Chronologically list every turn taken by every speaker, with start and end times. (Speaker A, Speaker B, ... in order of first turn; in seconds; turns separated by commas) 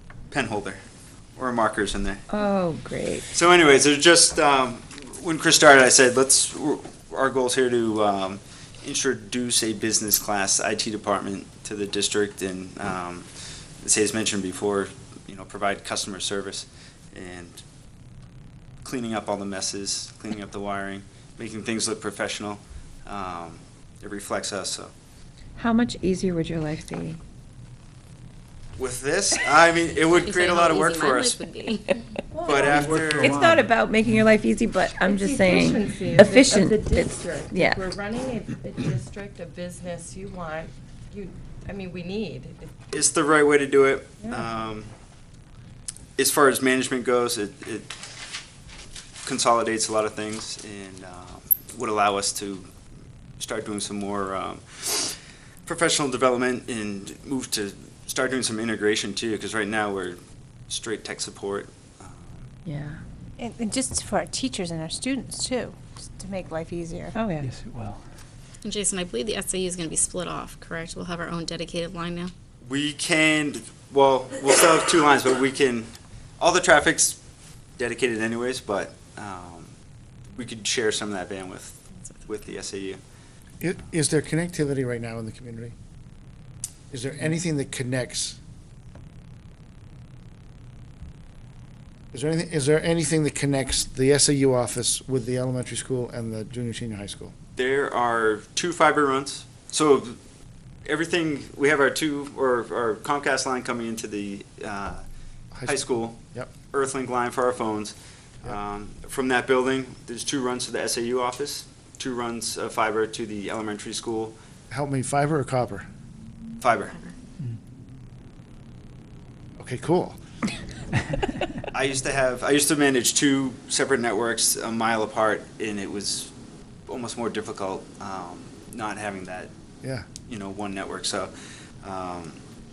Speaker A: 0.3-0.8, Speaker A: 1.4-2.2, Speaker B: 2.3-3.2, Speaker A: 3.3-13.3, Speaker A: 13.8-17.6, Speaker A: 18.8-24.9, Speaker B: 25.6-27.2, Speaker A: 28.8-31.4, Speaker C: 30.2-32.0, Speaker D: 32.3-33.0, Speaker A: 32.4-33.4, Speaker E: 32.6-34.2, Speaker B: 33.2-37.8, Speaker D: 35.0-42.7, Speaker A: 42.9-44.9, Speaker A: 46.2-47.9, Speaker A: 49.2-52.7, Speaker A: 53.4-62.5, Speaker B: 62.7-63.0, Speaker F: 63.4-67.1, Speaker B: 67.2-67.5, Speaker E: 67.4-68.0, Speaker C: 68.6-72.3, Speaker A: 72.6-77.2, Speaker A: 77.8-79.8, Speaker A: 80.3-83.0, Speaker G: 83.6-85.7, Speaker G: 86.9-88.4, Speaker G: 92.1-97.3, Speaker A: 97.6-100.2, Speaker A: 100.8-105.0, Speaker G: 105.5-106.5, Speaker A: 105.7-114.4, Speaker G: 114.7-115.8, Speaker A: 116.6-117.0, Speaker G: 119.6-120.2, Speaker A: 121.7-126.3, Speaker A: 126.9-129.5, Speaker A: 130.3-131.3, Speaker A: 131.8-132.4